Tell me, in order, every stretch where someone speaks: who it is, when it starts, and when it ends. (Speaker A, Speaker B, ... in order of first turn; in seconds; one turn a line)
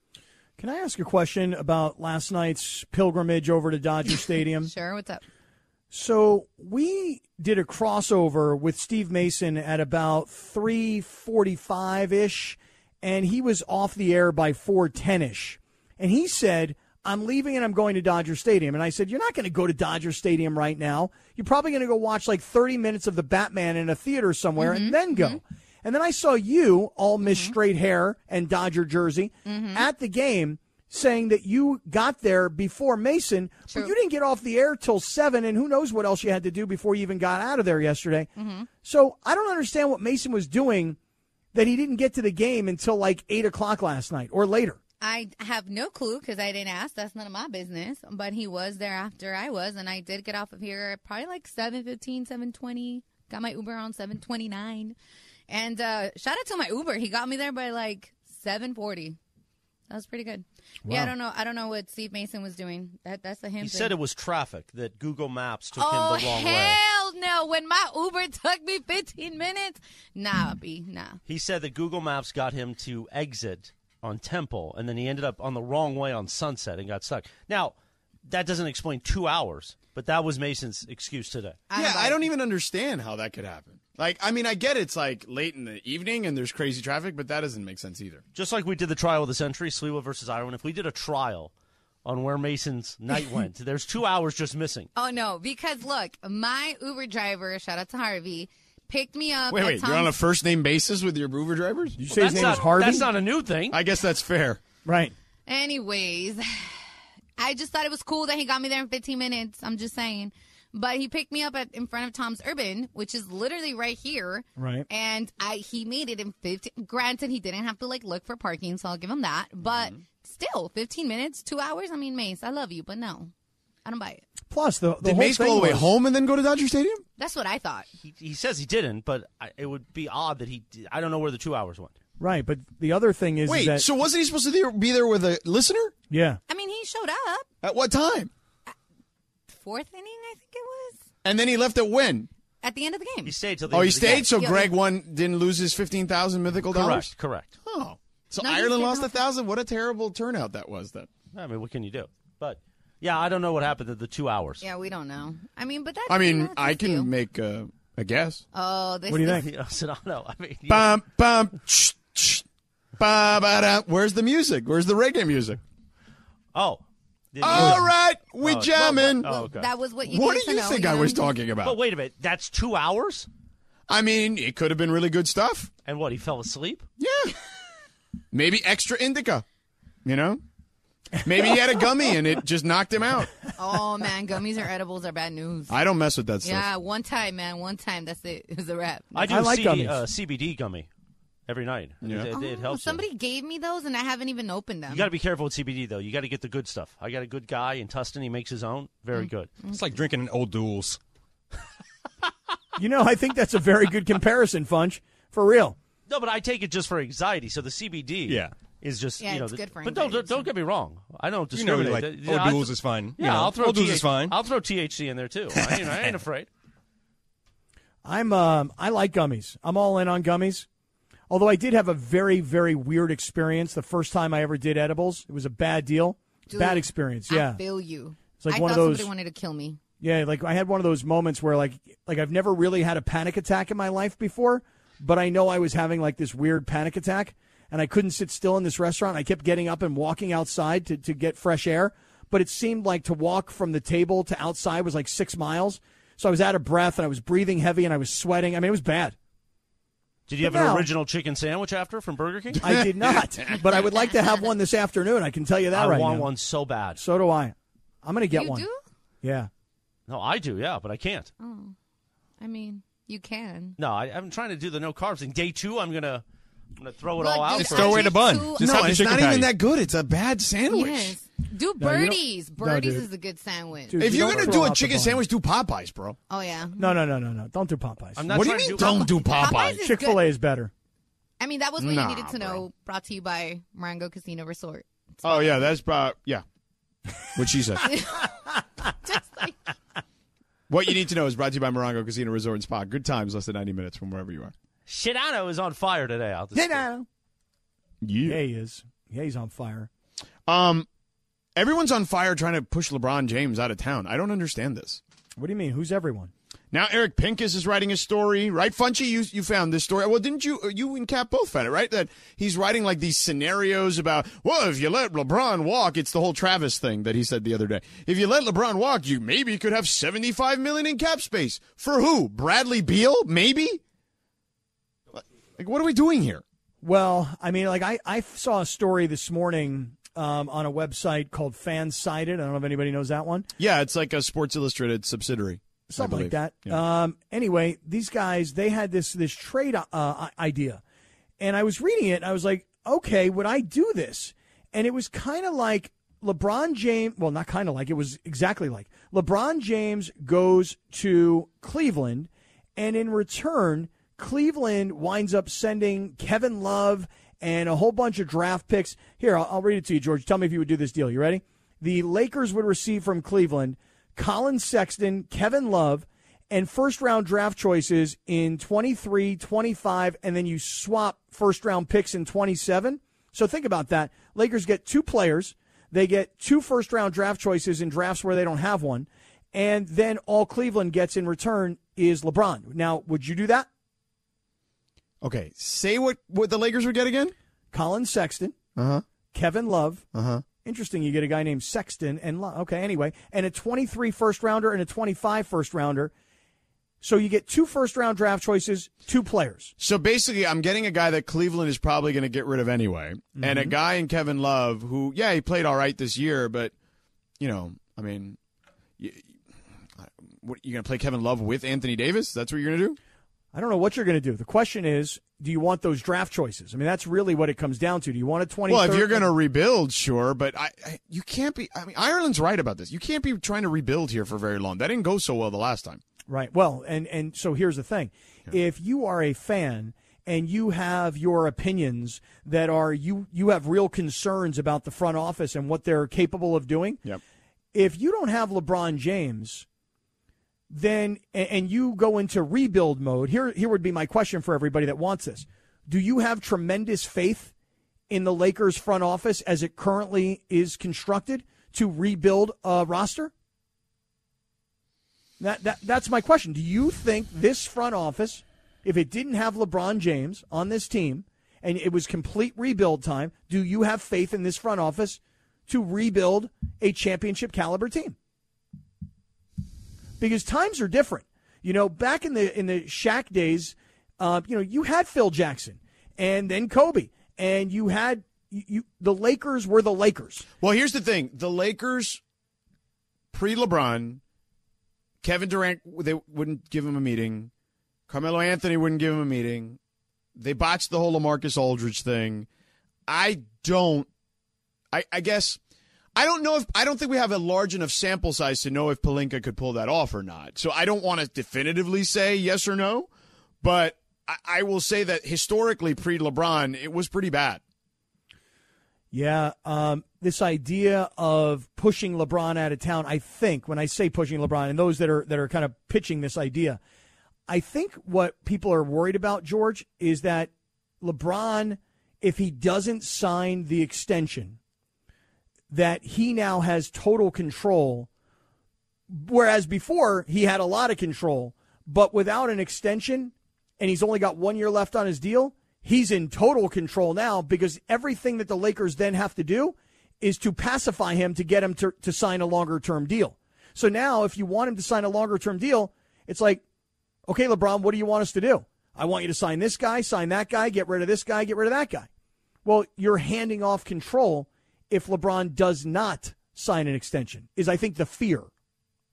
Speaker A: 0.6-4.7
Speaker B: 4.6-5.2
Speaker A: 5.9-41.0
Speaker B: 24.6-25.4
Speaker B: 27.2-27.6
Speaker B: 29.4-29.9
Speaker B: 33.7-33.9
Speaker B: 38.4-38.7
Speaker A: 41.5-44.8
Speaker B: 45.0-55.0
Speaker B: 55.5-59.2
Speaker B: 59.9-64.0
Speaker A: 60.9-61.1
Speaker C: 63.6-66.8
Speaker B: 65.8-71.2
Speaker C: 71.3-77.8
Speaker C: 78.3-81.6
Speaker B: 81.7-82.2
Speaker D: 81.7-88.2
Speaker C: 88.3-91.5
Speaker C: 92.0-94.9
Speaker B: 95.0-100.1
Speaker D: 99.5-102.5
Speaker A: 102.1-103.1
Speaker C: 102.1-103.8
Speaker D: 103.7-104.6
Speaker A: 104.8-105.1
Speaker B: 105.5-106.4
Speaker B: 107.4-123.3
Speaker A: 114.6-114.9
Speaker D: 119.7-120.0
Speaker B: 123.8-124.2
Speaker A: 124.5-125.9
Speaker D: 125.0-127.0
Speaker B: 127.2-127.9
Speaker C: 128.0-131.9
Speaker A: 132.2-133.9
Speaker D: 133.5-135.9
Speaker A: 136.1-136.4
Speaker B: 136.5-137.5
Speaker D: 137.6-138.3
Speaker B: 139.5-141.0
Speaker D: 141.2-142.3
Speaker B: 142.6-143.4
Speaker C: 143.2-144.3
Speaker D: 143.7-151.1
Speaker B: 144.0-144.7
Speaker C: 146.7-147.5
Speaker B: 148.4-149.2
Speaker C: 151.3-154.6
Speaker B: 154.6-157.1
Speaker D: 156.1-158.4
Speaker B: 158.5-159.4
Speaker A: 159.1-159.5
Speaker C: 159.3-160.9
Speaker D: 160.7-162.4
Speaker D: 163.0-165.6
Speaker C: 166.5-166.8
Speaker C: 167.3-169.7
Speaker D: 167.4-169.3
Speaker A: 167.5-167.8
Speaker B: 169.2-171.3
Speaker D: 170.0-171.8
Speaker C: 171.6-173.3
Speaker D: 173.9-175.7
Speaker C: 175.9-176.8
Speaker D: 177.0-177.4
Speaker D: 178.3-179.4
Speaker D: 180.1-180.4
Speaker D: 181.2-183.4
Speaker B: 183.6-185.8
Speaker D: 185.7-186.7
Speaker B: 186.4-189.3
Speaker C: 189.2-190.9
Speaker A: 189.2-190.0
Speaker C: 191.5-193.0
Speaker D: 192.0-192.3
Speaker B: 192.3-195.1
Speaker C: 194.9-199.5
Speaker E: 199.6-201.0
Speaker A: 202.8-205.8
Speaker C: 206.1-216.5
Speaker E: 208.3-208.5
Speaker B: 209.2-210.5
Speaker E: 211.5-214.4
Speaker A: 218.0-220.7
Speaker A: 221.3-227.6
Speaker B: 226.5-229.8
Speaker A: 228.4-229.1
Speaker A: 230.0-249.2
Speaker C: 250.3-252.8
Speaker A: 250.4-250.9
Speaker A: 252.6-256.3
Speaker D: 252.6-253.6
Speaker C: 255.7-257.0
Speaker A: 257.0-258.7
Speaker B: 258.3-258.8
Speaker A: 259.2-259.5
Speaker C: 260.1-261.3
Speaker B: 261.4-261.8
Speaker B: 262.4-263.8
Speaker C: 263.8-266.2
Speaker C: 266.8-268.1
Speaker B: 267.2-268.7
Speaker E: 267.5-269.5
Speaker D: 268.6-271.1
Speaker B: 270.7-274.6
Speaker A: 271.8-273.1
Speaker A: 273.9-275.2
Speaker D: 274.0-276.2
Speaker B: 276.3-277.0
Speaker A: 276.8-278.4
Speaker C: 278.2-279.1
Speaker D: 278.3-279.8
Speaker B: 279.1-280.2
Speaker A: 279.8-280.7
Speaker B: 281.4-285.5
Speaker D: 281.8-282.6
Speaker D: 285.2-286.4
Speaker D: 287.4-287.9
Speaker B: 287.8-288.3
Speaker B: 288.8-289.6
Speaker D: 290.7-294.5
Speaker C: 294.9-296.9
Speaker A: 296.6-297.1
Speaker D: 298.0-298.4
Speaker A: 298.3-299.9
Speaker D: 300.5-300.9
Speaker D: 301.6-305.0
Speaker A: 305.4-306.3
Speaker D: 306.7-323.8
Speaker D: 325.6-326.4
Speaker A: 326.8-333.5
Speaker D: 333.6-336.8
Speaker A: 335.9-340.8
Speaker A: 341.4-383.7
Speaker D: 385.2-387.4
Speaker A: 387.7-388.6
Speaker D: 388.8-389.1
Speaker A: 389.3-396.1
Speaker D: 390.1-390.5
Speaker A: 397.0-399.7
Speaker D: 399.8-406.7
Speaker A: 403.4-403.8
Speaker D: 407.4-408.4
Speaker D: 409.0-409.3
Speaker D: 410.0-413.0
Speaker A: 413.5-419.3
Speaker D: 418.7-426.0
Speaker A: 426.3-437.0
Speaker A: 437.7-439.7
Speaker A: 440.7-447.5
Speaker A: 448.1-453.3
Speaker A: 455.4-468.2
Speaker A: 470.2-480.5
Speaker D: 480.6-482.2
Speaker D: 483.3-484.2
Speaker D: 485.2-487.5
Speaker D: 488.1-489.8
Speaker D: 490.4-492.5
Speaker D: 493.1-494.1
Speaker D: 494.9-495.6
Speaker D: 496.1-503.1
Speaker D: 503.6-507.6
Speaker A: 509.1-516.8
Speaker A: 517.5-524.6
Speaker A: 525.7-528.1
Speaker A: 529.1-546.6
Speaker A: 547.3-552.1
Speaker A: 552.6-558.5